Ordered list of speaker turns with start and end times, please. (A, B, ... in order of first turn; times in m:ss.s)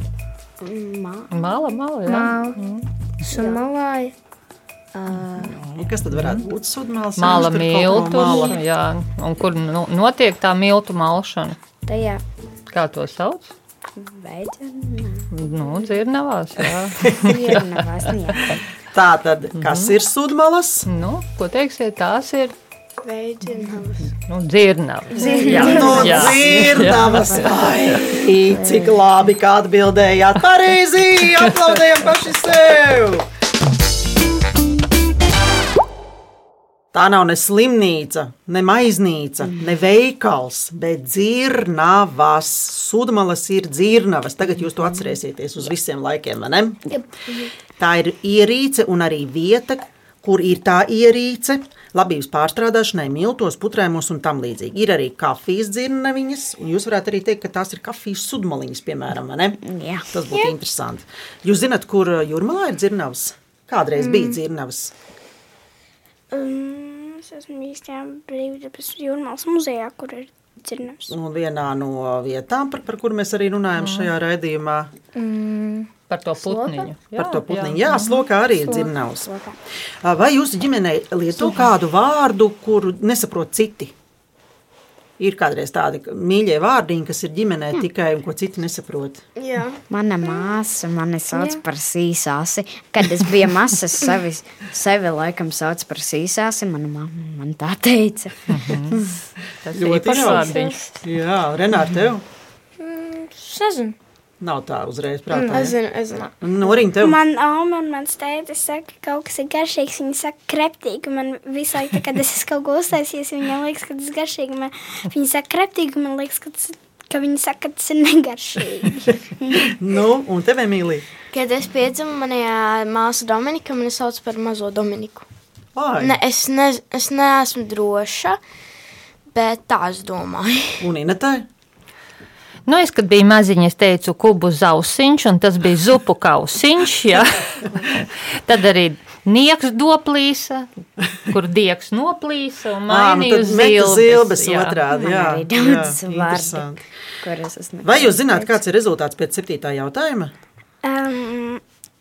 0:00.6-0:01.6 A
0:01.3-0:02.9 B
0:02.0-0:02.6 C
0:03.2-0:04.1 C
0:03.3-0:03.6 A
0:05.0-0:05.5 A
0:05.3-0:08.6 D
0:06.1-0:06.4 B
0:07.2-0:11.6 B
0:11.9-0:12.2 A
0:12.7-0:13.5 B
0:14.0-0:15.3 A
0:15.3-0:17.6 B
0:17.2-0:18.6 A
0:18.9-0:20.9 D
0:19.6-0:19.9 B
0:20.9-0:22.6 B
0:23.0-0:24.1 E
0:24.3-0:27.5 B
0:25.1-0:27.7 A
0:25.5-0:33.3 D
0:28.5-0:28.9 A
0:36.9-0:46.8 D
0:47.8-0:59.6 D
0:59.6-1:00.1 A
1:00.1-1:04.9 D
1:06.3-1:11.1 F
1:11.1-1:14.9 D
1:13.8-1:14.1 B
1:15.1-1:15.9 C
1:16.1-1:18.3 B
1:16.4-1:16.9 A
1:17.1-1:19.3 D
1:19.2-1:19.5 A
1:20.0-1:23.9 D
1:25.2-1:29.2 D
1:29.4-1:29.8 E
1:29.9-1:38.5 A
1:38.5-1:41.0 B
1:39.7-1:42.2 D
1:42.8-1:44.0 C
1:44.4-1:45.8 D
1:45.3-1:45.7 C
1:45.4-1:46.3 E
1:46.4-1:47.2 D
1:47.0-1:59.7 F
1:59.6-2:01.1 D
2:01.3-2:05.3 E
2:05.8-2:06.2 D
2:06.0-2:08.4 E
2:09.3-2:10.9 E
2:10.8-2:11.5 D
2:12.7-2:20.7 B
2:21.3-2:24.8 B
2:22.9-2:26.8 D
2:24.9-2:28.6 A
2:27.8-2:30.3 D
2:30.8-2:31.6 F